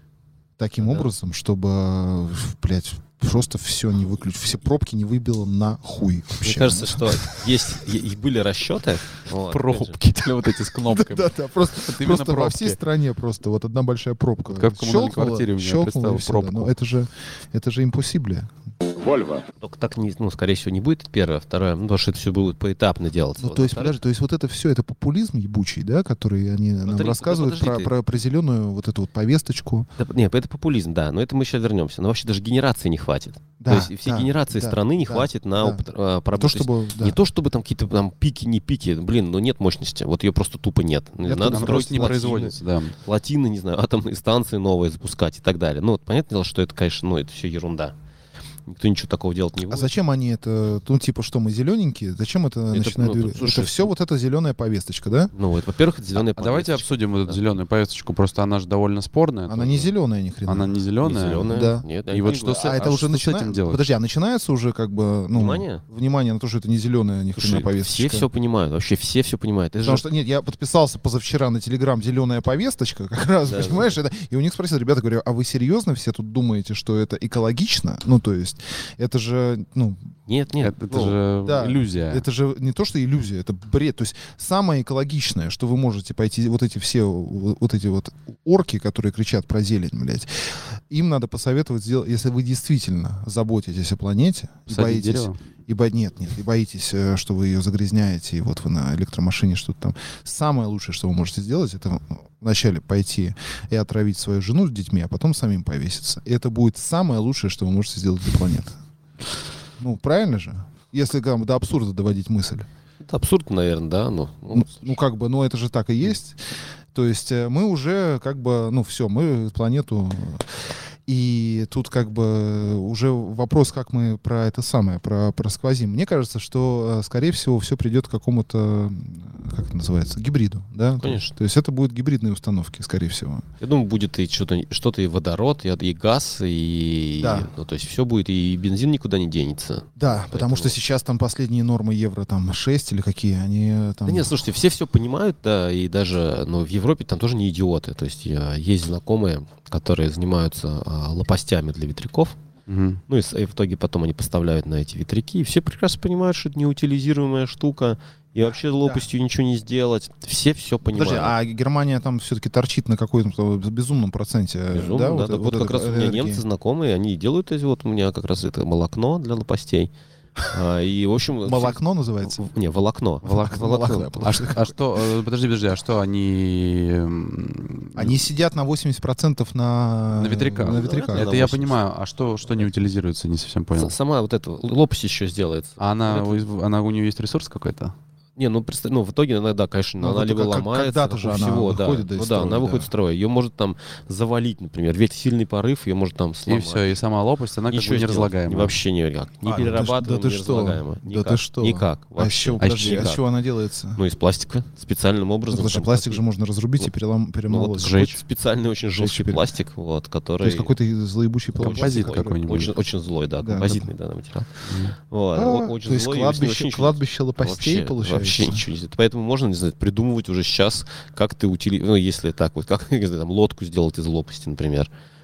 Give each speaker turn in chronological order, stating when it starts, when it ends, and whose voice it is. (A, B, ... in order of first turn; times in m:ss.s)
0:00.6-0:07.5 A
0:00.8-0:01.1 B
0:06.4-0:10.0 B
0:09.3-0:12.8 C
0:10.8-0:18.5 A
0:14.5-0:16.7 C
0:19.6-0:24.0 B
0:23.4-0:29.9 A
0:26.8-0:27.9 B
0:30.0-0:47.9 B
0:33.6-0:37.2 A
0:41.2-0:42.1 A
0:41.3-0:43.0 C
0:48.7-0:49.9 B
0:49.7-0:55.3 A
0:52.7-0:53.9 B
0:55.3-0:57.4 B
0:56.1-0:59.9 C
0:59.5-1:00.8 A
1:00.5-1:03.9 C
1:01.0-1:03.0 B
1:01.4-1:08.3 A
1:05.3-1:05.8 B
1:07.4-1:10.0 B
1:09.8-1:20.1 A
1:13.4-1:13.9 B
1:20.3-1:21.2 B
1:20.6-1:22.2 C
1:21.4-1:48.8 A
1:34.7-1:35.4 C
1:49.8-1:52.7 A
1:53.0-1:54.9 B
1:54.5-2:13.4 A
2:11.0-2:11.3 B
2:13.6-2:20.7 B
2:17.2-2:17.5 A
2:20.0-2:24.3 A
2:24.0-2:32.4 B
2:32.7-2:33.0 C
2:33.1-2:41.3 B
2:40.9-2:46.4 A
2:44.7-2:49.9 B
2:50.4-2:54.4 B
2:51.4-2:52.4 A
2:53.2-2:54.7 A
2:54.2-2:58.2 C
2:58.0-3:01.3 A
3:00.1-3:03.9 C
3:00.6-3:01.8 B
3:03.7-3:06.4 B
3:05.8-3:07.9 C
3:08.4-3:17.0 B
3:10.0-3:12.9 A
3:16.4-3:18.8 C
3:17.7-3:23.2 B
3:19.4-3:24.0 A
3:22.6-3:23.1 C
3:24.0-3:26.2 B
3:25.5-3:28.2 A
3:27.5-3:30.7 B
3:27.8-3:28.1 C
3:29.0-3:29.4 A
3:30.4-3:32.6 A
3:31.6-3:34.5 B
3:31.6-3:32.7 C
3:33.4-3:33.9 A
3:34.6-3:35.0 C
3:35.1-3:44.9 B
3:35.3-3:38.6 A